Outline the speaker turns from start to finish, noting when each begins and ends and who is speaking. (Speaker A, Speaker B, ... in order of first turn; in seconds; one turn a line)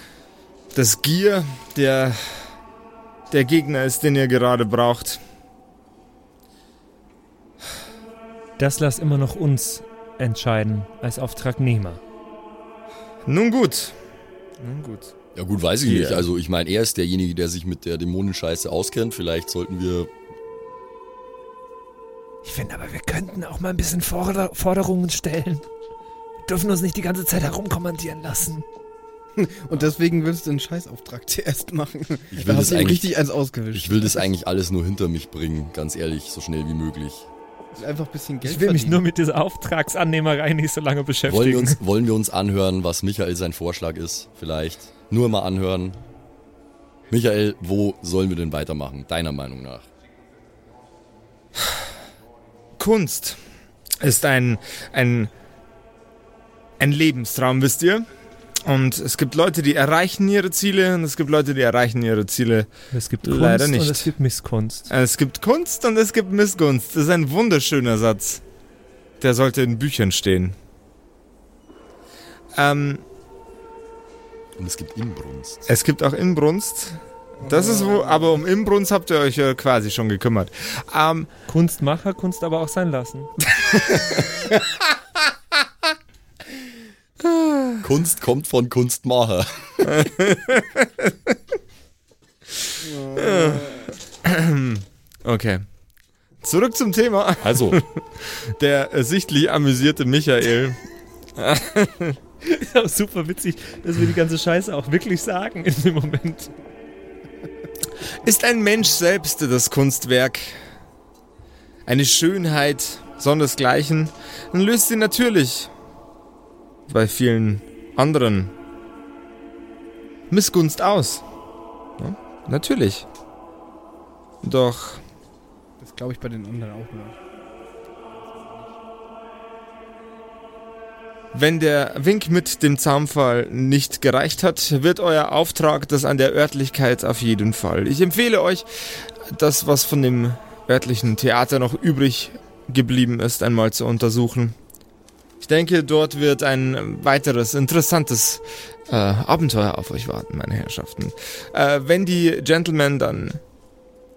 Speaker A: 0.7-2.6
Speaker A: 3.3-5.2
Speaker B: 8.6-12.0
Speaker A: 13.3-13.9
Speaker A: 14.6-15.1
Speaker C: 15.3-20.1
Speaker A: 15.8-16.3
Speaker B: 22.4-25.6
Speaker B: 26.5-28.6
Speaker D: 29.4-34.2
Speaker C: 32.3-33.1
Speaker C: 33.7-37.3
Speaker D: 37.8-39.0
Speaker B: 38.4-41.8
Speaker C: 41.3-46.0
Speaker C: 47.1-49.9
Speaker A: 52.8-53.4
Speaker A: 54.0-55.3
Speaker A: 56.8-58.1
Speaker A: 58.6-62.7
Speaker B: 62.9-64.9
Speaker A: 63.2-64.1
Speaker A: 64.9-68.4
Speaker A: 69.2-70.5
Speaker A: 72.5-73.0
Speaker C: 74.6-75.6
Speaker A: 75.7-81.3
Speaker D: 77.4-78.4
Speaker B: 81.5-83.3
Speaker A: 83.7-84.5
Speaker A: 87.2-87.8
Speaker C: 87.8-89.9
Speaker A: 89.8-90.9
Speaker D: 92.8-93.9
Speaker A: 93.2-95.7
Speaker A: 96.4-100.8
Speaker C: 97.4-97.8
Speaker A: 101.4-102.2
Speaker B: 102.5-106.5
Speaker A: 108.2-110.6
Speaker A: 111.9-115.7
Speaker A: 116.9-118.5
Speaker A: 120.3-121.2
Speaker A: 122.0-123.1
Speaker A: 124.4-125.0
Speaker D: 125.8-127.2
Speaker D: 128.3-128.6
Speaker A: 131.3-144.6
Speaker A: 145.4-153.4